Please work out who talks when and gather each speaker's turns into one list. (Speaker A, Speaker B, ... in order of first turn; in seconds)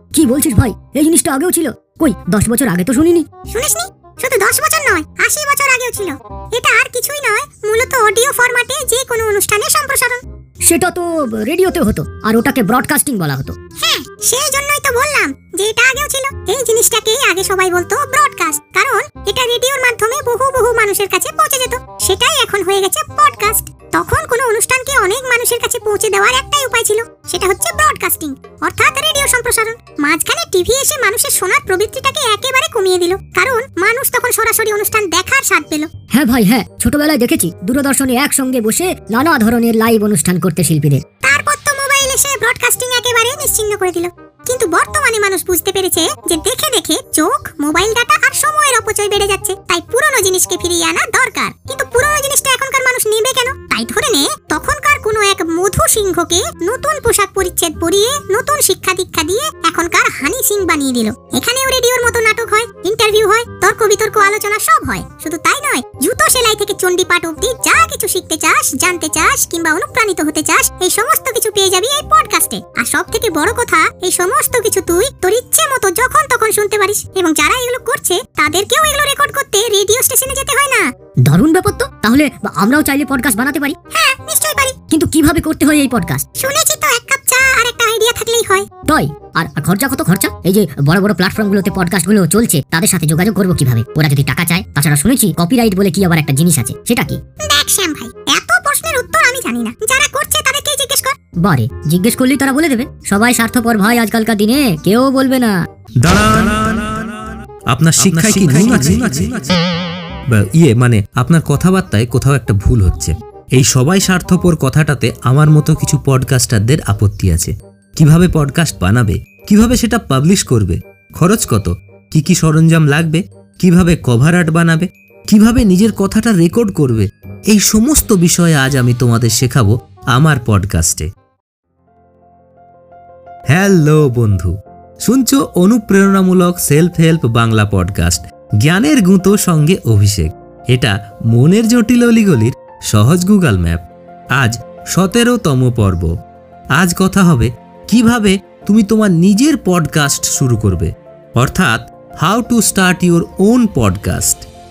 Speaker A: 0.1-3.3, 10.7-13.6, 36.1-41.0, 81.3-83.8, 84.9-86.2, 88.8-97.2, 101.4-105.6
Speaker B: 3.5-10.2, 13.8-35.9, 41.2-80.9, 83.9-84.8, 86.4-88.7, 97.4-101.2
Speaker C: 106.0-107.1, 107.7-109.6, 110.3-131.1, 133.5-143.8, 144.3-146.1, 146.8-154.5